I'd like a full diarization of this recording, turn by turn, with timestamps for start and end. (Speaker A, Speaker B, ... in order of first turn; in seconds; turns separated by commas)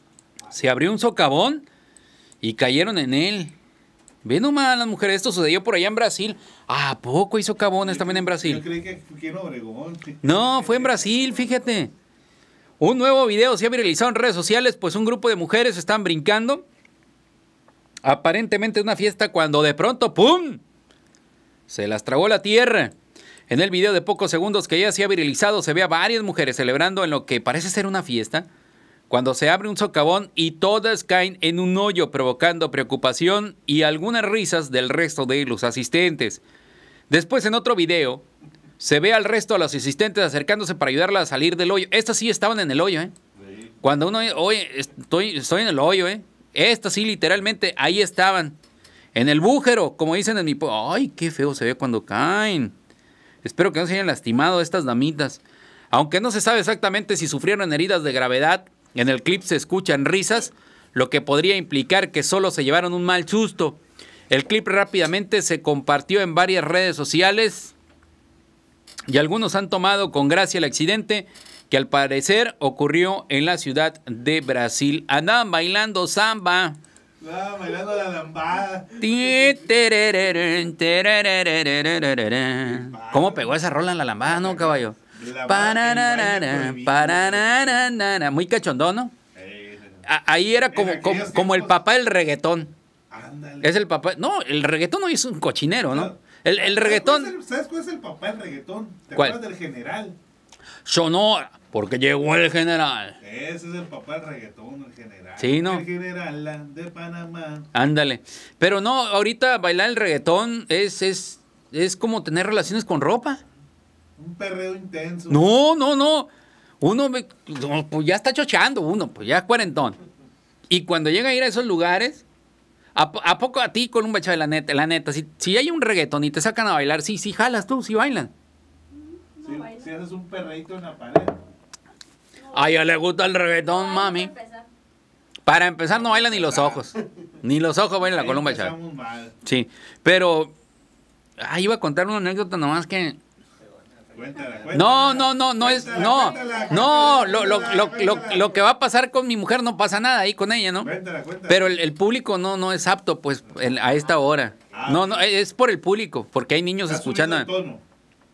Speaker A: 0.5-1.6, Speaker A: 2.4-3.5, Speaker A: 4.2-8.6, Speaker B: 7.8-11.7, Speaker A: 10.2-11.9, Speaker A: 12.8-16.6, Speaker A: 18.0-20.6, Speaker A: 21.7-22.9, Speaker A: 23.5-28.5, Speaker A: 29.1-36.4, Speaker A: 37.1-38.2, Speaker A: 38.8-43.1, Speaker B: 43.4-44.0, Speaker A: 43.8-48.6, Speaker A: 49.1-52.7, Speaker A: 53.4-63.8, Speaker A: 64.3-67.7, Speaker A: 69.1-76.8, Speaker B: 77.2-79.7, Speaker A: 79.0-89.1, Speaker B: 82.5-83.7, Speaker B: 84.2-87.8, Speaker B: 89.3-90.0, Speaker A: 90.0-92.7, Speaker B: 90.6-91.8, Speaker B: 93.1-93.8, Speaker A: 93.6-97.3, Speaker B: 95.8-100.2, Speaker A: 99.1-99.4, Speaker A: 100.8-103.2, Speaker B: 103.2-107.7, Speaker A: 105.4-105.8, Speaker A: 107.7-113.4, Speaker B: 114.2-115.5, Speaker A: 115.3-116.3, Speaker A: 116.8-120.0, Speaker A: 120.7-122.2, Speaker A: 122.9-128.3, Speaker C: 128.9-129.9, Speaker B: 129.4-131.4, Speaker C: 132.4-132.8, Speaker A: 132.5-134.3, Speaker C: 133.6-134.7, Speaker A: 135.4-138.7, Speaker B: 135.9-136.8, Speaker B: 138.0-139.3, Speaker A: 139.4-140.5, Speaker A: 141.4-143.2, Speaker B: 144.1-148.6, Speaker A: 144.7-150.9, Speaker C: 145.8-147.6, Speaker B: 150.8-151.8, Speaker A: 151.5-157.5, Speaker B: 154.7-155.3, Speaker B: 156.8-157.8